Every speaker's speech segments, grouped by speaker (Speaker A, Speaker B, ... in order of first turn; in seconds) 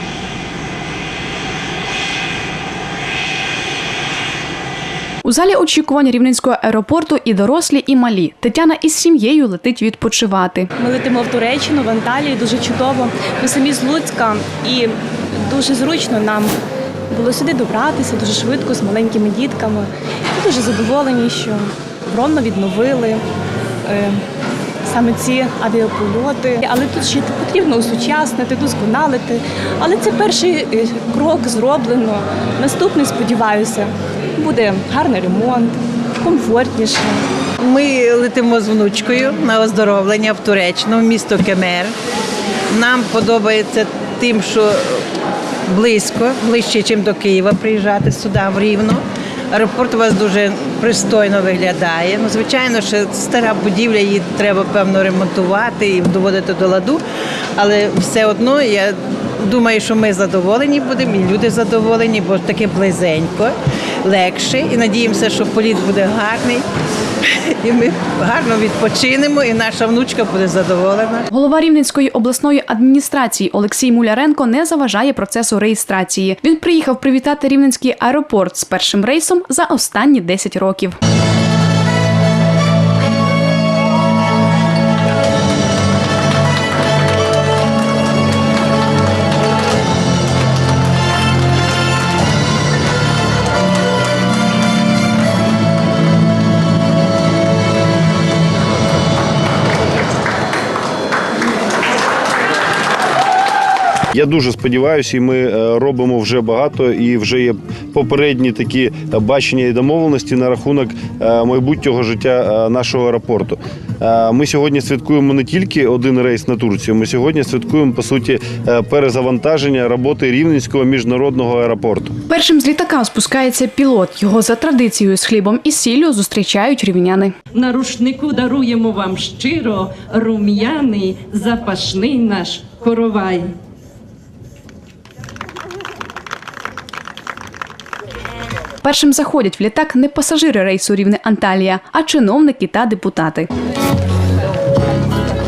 Speaker A: 5.2-10.7, 71.3-81.0, 122.3-127.3, 138.8-143.5
Speaker B: 10.8-16.6, 17.1-23.2, 23.9-24.2, 24.8-37.3
Speaker C: 37.6-41.9, 42.7-45.0, 45.7-57.0, 57.5-66.6, 67.2-71.2
Speaker D: 104.1-122.1
Speaker E: 127.5-133.5